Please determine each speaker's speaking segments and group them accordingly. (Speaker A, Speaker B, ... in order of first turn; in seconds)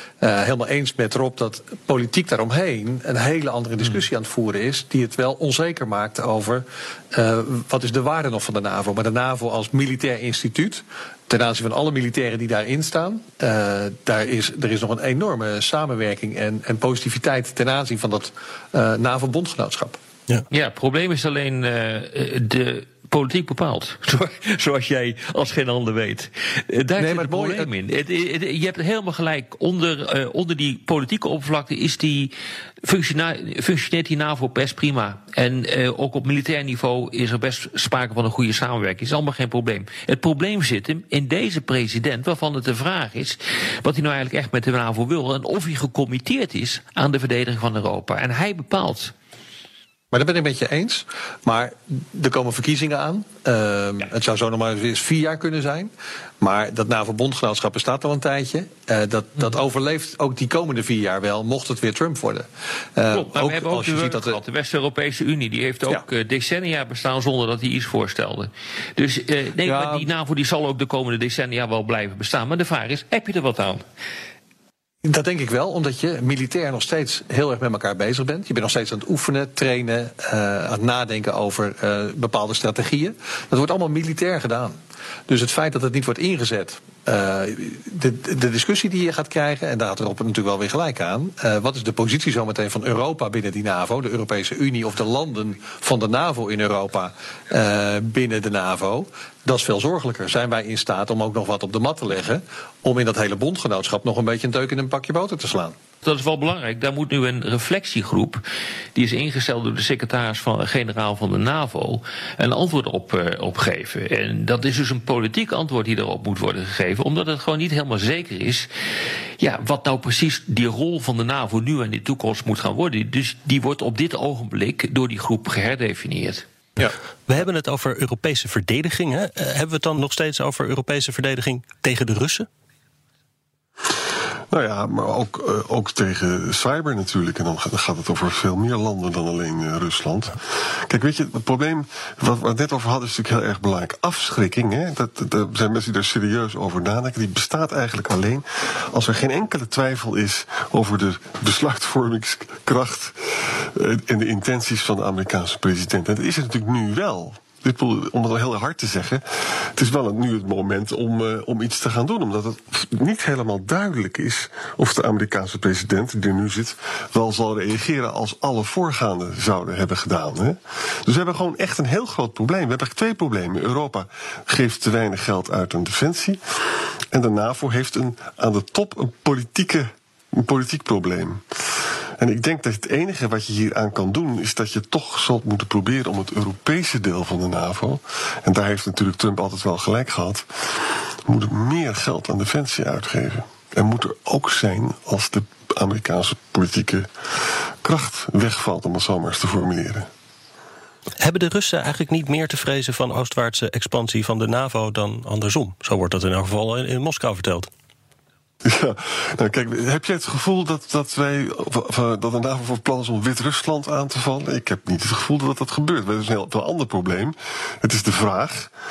Speaker A: 0.2-20.0, 27.0-27.7, 50.1-64.4, 69.6-70.1, 75.0-84.8, 85.3-105.8
Speaker B: 20.5-32.3, 32.8-49.1, 63.1-73.8, 106.0-108.4, 109.0-118.7, 119.4-126.5
Speaker C: 127.3-132.5, 201.2-207.7
Speaker D: 134.5-176.4, 177.1-181.4, 182.2-200.1, 208.6-218.7